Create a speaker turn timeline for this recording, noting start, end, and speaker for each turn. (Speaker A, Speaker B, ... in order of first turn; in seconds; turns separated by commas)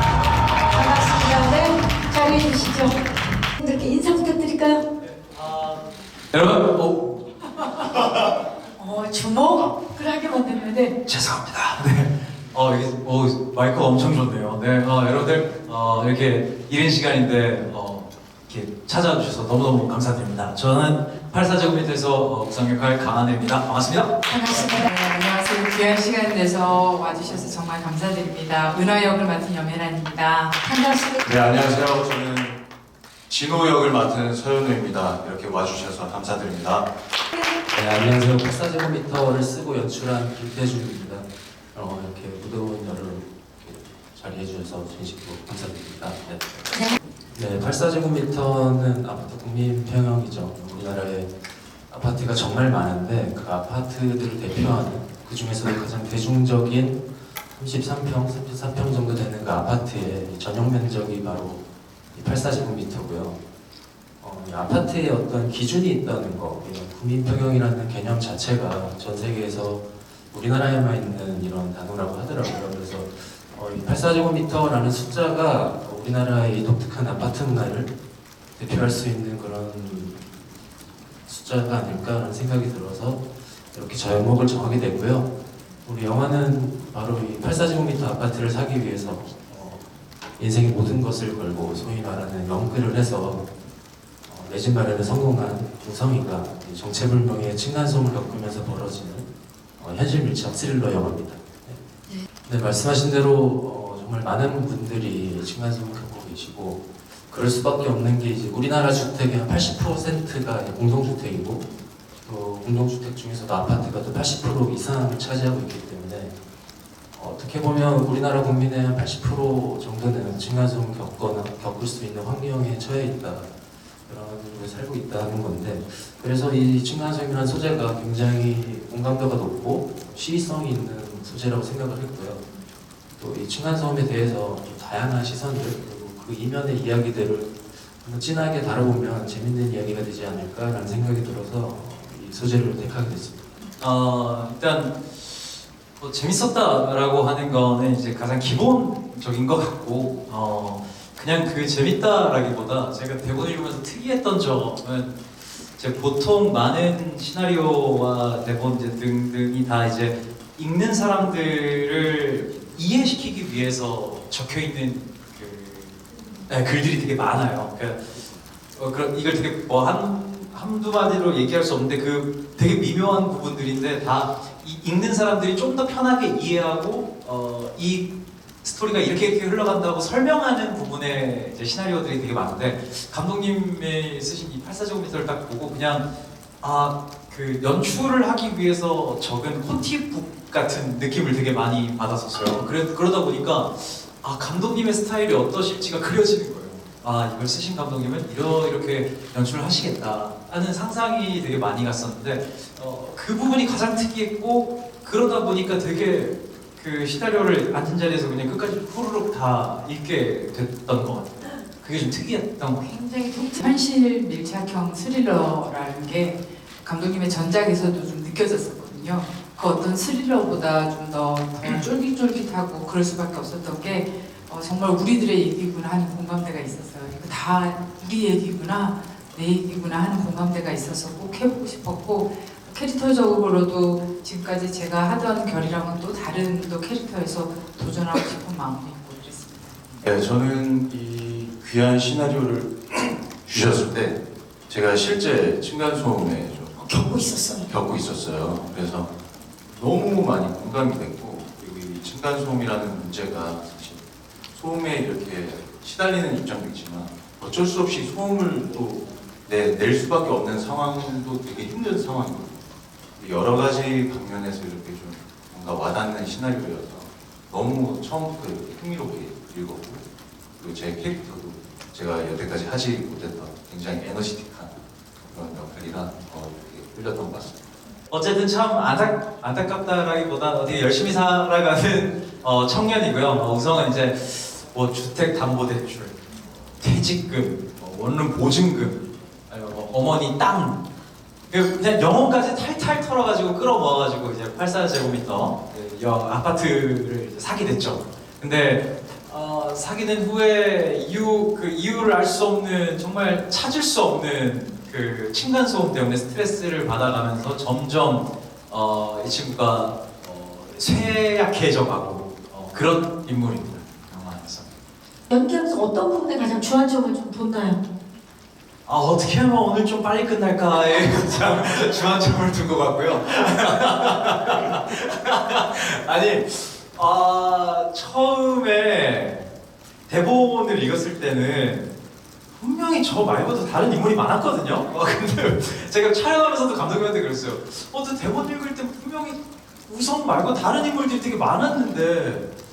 Speaker A: 0.7-4.8, Speaker B: 5.0-8.4, Speaker A: 8.8-10.9, Speaker B: 11.1-24.2, Speaker A: 24.3-24.9, Speaker C: 24.3-31.1, Speaker D: 31.2-32.6, Speaker D: 33.3-36.9, Speaker E: 37.7-51.3, Speaker E: 51.9-63.4, Speaker E: 64.2-77.9, Speaker E: 78.5-80.5, Speaker E: 81.2-85.3, Speaker E: 85.8-89.8, Speaker E: 90.4-93.5, Speaker E: 94.2-101.8, Speaker E: 102.4-111.6, Speaker E: 112.2-116.3, Speaker E: 117.1-123.5, Speaker E: 124.1-132.4, Speaker E: 133.2-143.5, Speaker B: 143.8-168.2, Speaker B: 168.7-178.1, Speaker B: 178.6-186.1, Speaker B: 186.6-212.8, Speaker A: 212.8-213.6, Speaker C: 213.4-239.9, Speaker D: 240.0-246.7, Speaker A: 246.8-247.7, Speaker D: 247.7-249.1, Speaker D: 249.7-254.0, Speaker D: 254.5-262.6, Speaker D: 263.2-270.0, Speaker D: 270.6-277.6, Speaker B: 278.1-286.2, Speaker B: 286.8-290.8, Speaker B: 291.5-314.7, Speaker A: 315.3-317.8, Speaker B: 318.9-329.4, Speaker B: 330.1-331.9, Speaker B: 332.6-342.5